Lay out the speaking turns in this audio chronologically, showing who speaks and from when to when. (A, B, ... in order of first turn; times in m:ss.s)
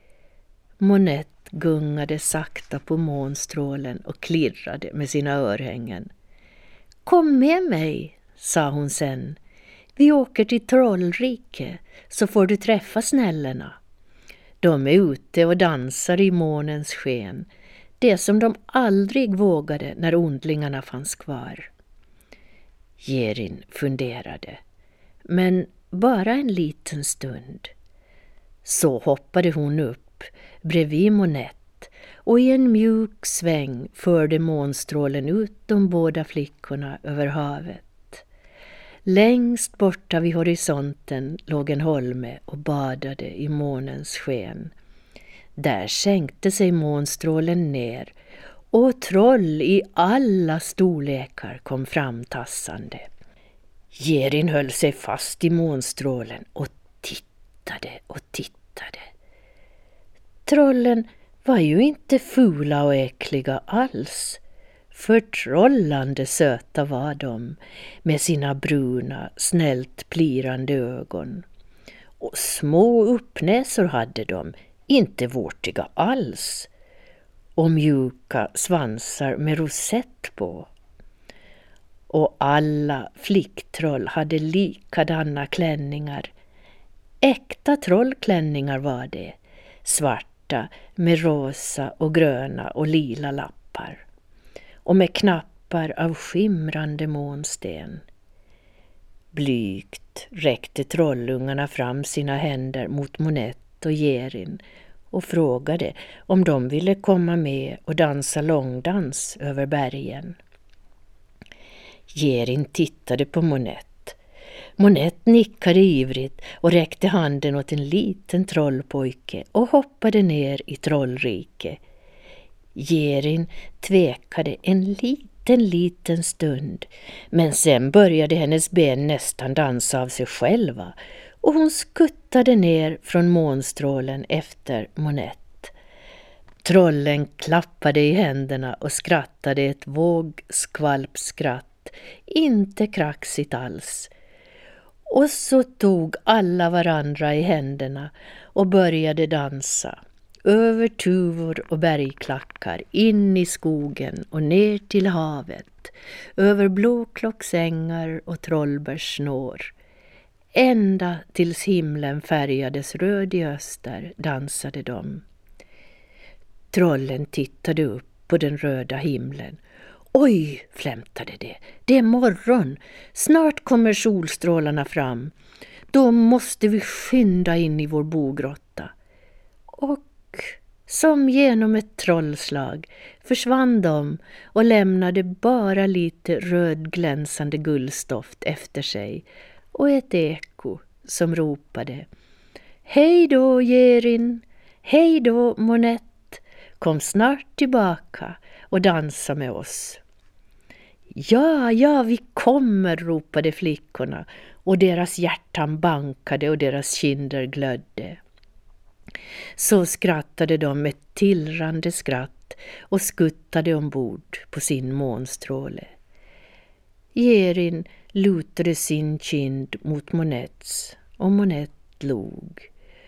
0:00.8-0:06.1 A
0:07.0-0:09.4 A
0:10.0-0:13.8 A
0:14.6-0:17.5 A
0:18.0-0:21.7 A
0:23.0-0:24.6 A
0:25.3-0:27.7 A
0:28.6-0:38.2 A
0:39.0-0:44.7 A
0:45.6-0:48.1 A
0:48.7-0:53.1 A
0:53.9-0:59.1 A
1:00.4-1:04.4 A
1:04.9-1:11.4 A
1:12.2-1:16.7 A
1:17.6-1:20.7 A
1:22.1-1:26.3 A
1:27.2-1:34.0 A
1:34.8-1:38.0 A
1:39.3-1:50.4 A
1:52.1-1:54.2 A
1:54.8-2:01.8 A
2:02.7-2:15.7 A
2:16.6-2:24.1 A
2:25.1-2:39.7 A
2:40.5-2:45.2 A
2:46.7-2:49.6 A
2:50.1-2:55.3 A
2:55.9-2:58.9 A
2:59.8-3:12.1 A
3:12.8-3:20.0 A
3:21.1-3:28.2 A
3:29.6-3:35.9 A
3:37.1-3:42.7 A